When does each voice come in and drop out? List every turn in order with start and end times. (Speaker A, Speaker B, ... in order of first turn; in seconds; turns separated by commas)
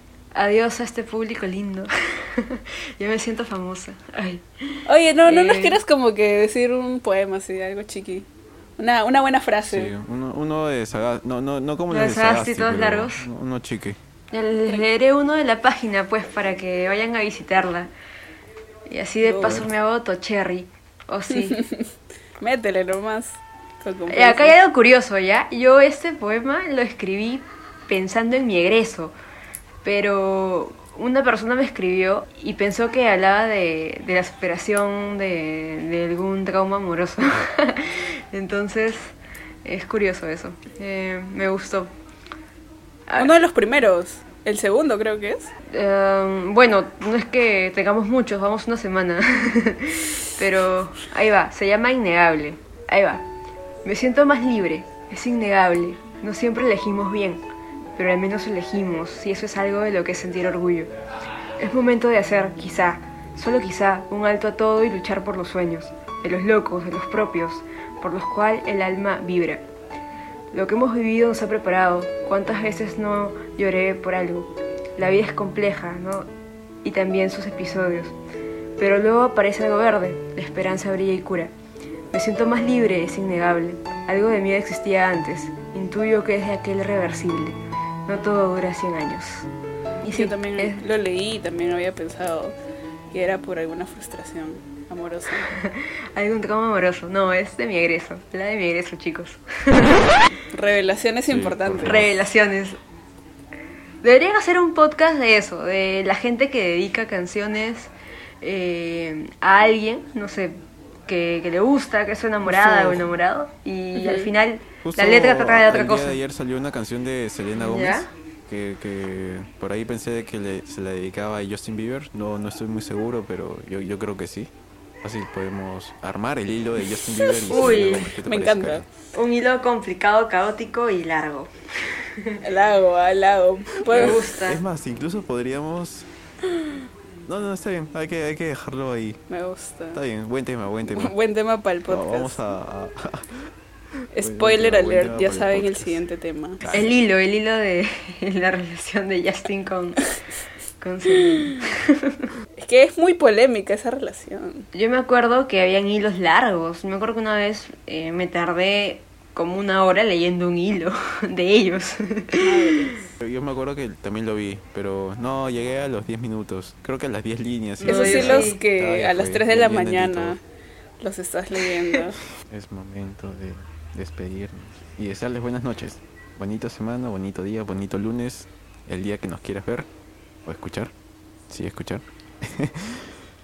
Speaker A: 0.3-5.8, Speaker B: 4.9-8.3, Speaker B: 8.8-9.9, Speaker C: 9.7-14.0, Speaker A: 11.9-13.3, Speaker A: 14.3-17.9, Speaker A: 18.9-21.6, Speaker B: 19.2-19.6, Speaker B: 21.3-24.6, Speaker A: 24.1-29.1, Speaker A: 29.8-39.1, Speaker A: 39.6-41.9, Speaker B: 43.2-45.5, Speaker A: 45.7-53.3, Speaker A: 53.9-57.4, Speaker A: 58.0-60.9, Speaker A: 61.6-69.7, Speaker A: 70.5-76.3, Speaker A: 76.8-78.1, Speaker A: 78.8-81.5, Speaker A: 82.1-89.5, Speaker A: 90.0-90.8, Speaker B: 90.1-92.5, Speaker B: 93.1-95.5, Speaker A: 95.5-100.3, Speaker B: 100.5-102.1, Speaker C: 101.3-102.1, Speaker A: 101.8-102.8, Speaker A: 104.0-116.2, Speaker B: 112.5-113.0, Speaker B: 114.0-114.3, Speaker C: 114.8-124.5, Speaker A: 117.6-118.1, Speaker C: 125.0-128.8, Speaker B: 127.2-128.9, Speaker A: 127.5-128.1, Speaker A: 129.1-132.4, Speaker B: 132.4-134.3, Speaker C: 133.9-136.1, Speaker A: 133.9-134.6, Speaker C: 137.3-139.2, Speaker B: 139.3-140.0, Speaker C: 139.9-141.1, Speaker B: 140.9-142.4, Speaker C: 141.9-143.3, Speaker B: 144.1-146.7, Speaker C: 144.2-146.0, Speaker C: 146.6-146.9, Speaker A: 146.7-150.0, Speaker A: 150.8-152.4, Speaker B: 151.1-151.6, Speaker B: 152.6-154.7, Speaker A: 154.7-162.9, Speaker B: 162.4-163.1, Speaker C: 163.2-170.4, Speaker A: 167.8-168.6, Speaker B: 167.8-170.4, Speaker B: 171.0-172.2, Speaker C: 172.5-179.9, Speaker C: 180.4-180.9, Speaker C: 181.5-183.1